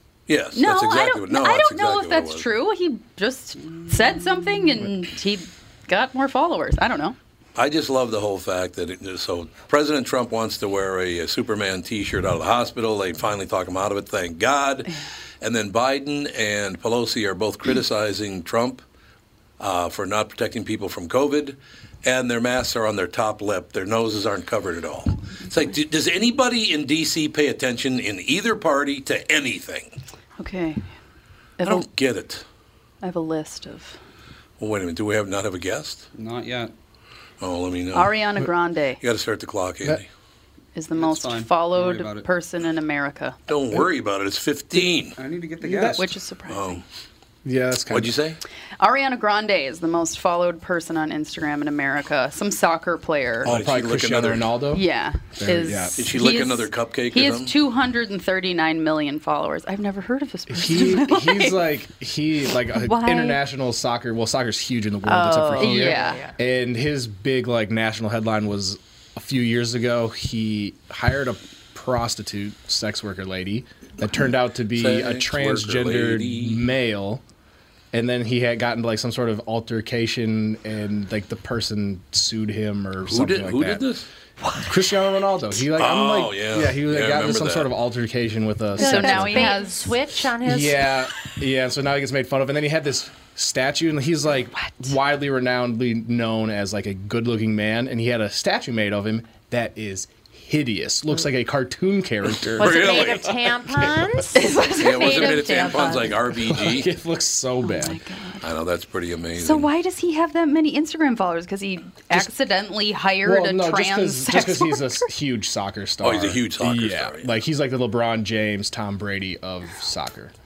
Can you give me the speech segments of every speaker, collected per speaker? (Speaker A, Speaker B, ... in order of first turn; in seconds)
Speaker A: 0.3-2.5, 7.5-18.8, 19.6-30.0, 31.6-32.4, 34.6-36.0, 37.4-38.1, 39.0-40.0, 43.5-45.2, 46.5-46.8, 47.9-48.4, 53.4-54.5, 56.0-57.5, 74.7-76.7, 83.1-84.1, 85.7-87.7, 102.4-103.3, 104.7-106.9, 108.4-109.7, 116.0-117.3
Speaker B: 0.5-7.2, 30.4-30.9, 31.6-31.9, 33.0-34.0, 37.9-39.0, 40.7-43.4, 46.0-46.8, 48.8-53.5, 54.7-61.7, 62.7-63.4, 65.6-66.2, 88.8-90.0, 104.3-106.1, 107.6-108.5, 109.3-115.0
Speaker C: 36.1-36.7, 40.9-42.3, 45.2-46.1
Speaker D: 45.6-46.0, 47.4-48.1, 53.4-54.8, 55.4-56.0, 60.5-77.2, 77.9-83.8, 84.7-89.6, 90.4-104.2, 106.5-108.0, 113.2-120.3
Speaker E: 65.0-66.3, 88.8-90.9, 102.6-106.1